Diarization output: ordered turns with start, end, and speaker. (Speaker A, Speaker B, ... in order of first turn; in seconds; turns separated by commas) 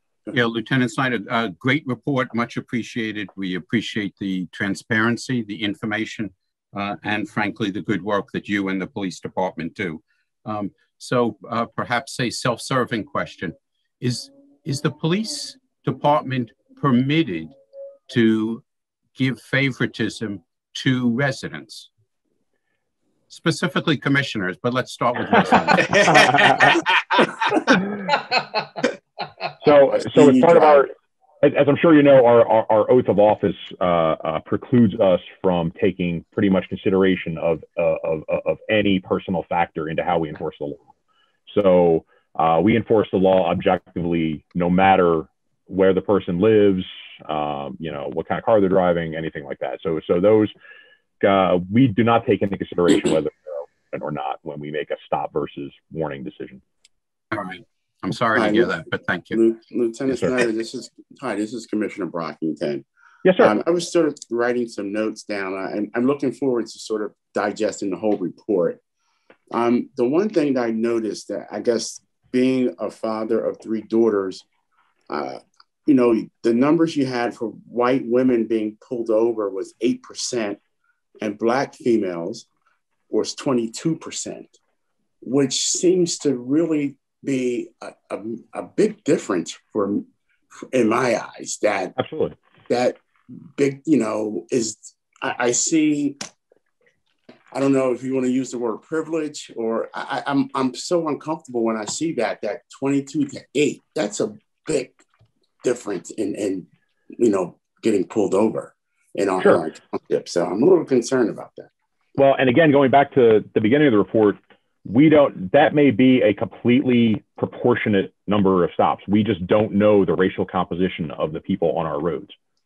Speaker A: 0.3-17.5, Speaker A: 18.1-18.6, Speaker A: 19.1-21.9, Speaker A: 23.3-26.8, Speaker B: 26.1-26.7, Speaker B: 29.6-30.9, Speaker C: 29.7-30.9, Speaker B: 31.4-40.8, Speaker B: 41.5-50.5, Speaker B: 51.2-56.6, Speaker A: 57.3-59.4, Speaker C: 58.3-58.8, Speaker C: 59.3-62.8, Speaker B: 60.1-60.4, Speaker B: 63.2-63.5, Speaker C: 63.4-68.8, Speaker C: 69.5-74.5, Speaker C: 75.1-80.6, Speaker C: 81.2-82.5, Speaker C: 83.1-84.5, Speaker C: 85.2-91.9, Speaker B: 92.0-92.3, Speaker C: 92.7-93.0, Speaker C: 93.6-96.2, Speaker C: 97.5-105.0, Speaker C: 105.6-111.7, Speaker B: 112.2-122.4